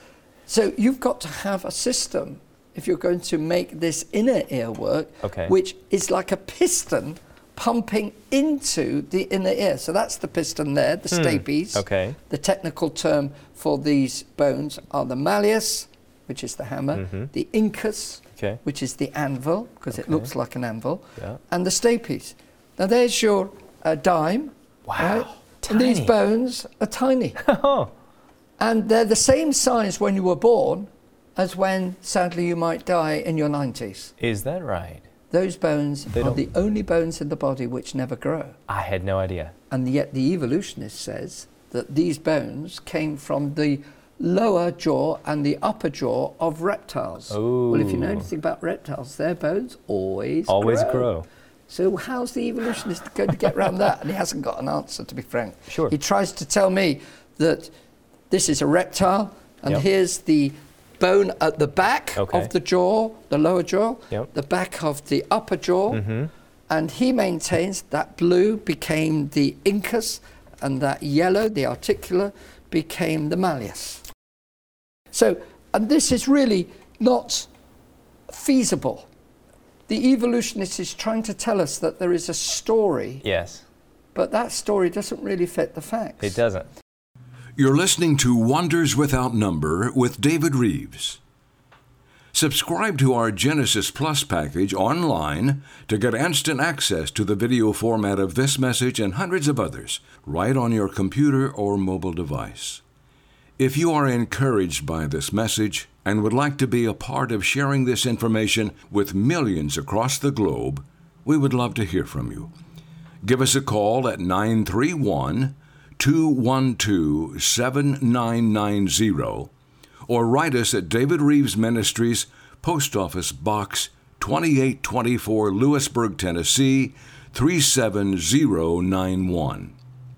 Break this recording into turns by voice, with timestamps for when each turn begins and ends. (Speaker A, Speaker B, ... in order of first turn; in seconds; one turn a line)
Speaker A: 0.5-27.4
Speaker B: 5.2-5.5
Speaker B: 11.1-12.2
Speaker B: 16.9-17.3
Speaker B: 19.9-20.3
Speaker B: 24.9-26.1
Speaker B: 27.4-27.9
Speaker A: 28.6-34.1
Speaker B: 34.2-35.0
Speaker A: 35.3-38.6
Speaker B: 38.7-39.5
Speaker A: 39.7-51.1
Speaker B: 47.3-48.3
Speaker B: 50.5-51.2
Speaker A: 51.7-57.7
Speaker A: 58.3-66.0
Speaker B: 62.2-62.5
Speaker B: 65.9-66.3
Speaker A: 66.7-74.0
Speaker A: 75.1-77.5
Speaker A: 78.3-79.0
Speaker A: 79.9-83.2
Speaker B: 83.2-83.6
Speaker A: 84.1-86.4
Speaker B: 86.2-86.7
Speaker C: 87.5-91.2
Speaker C: 92.3-102.8
Speaker C: 103.6-112.5
Speaker C: 113.2-119.5
Speaker C: 120.1-129.7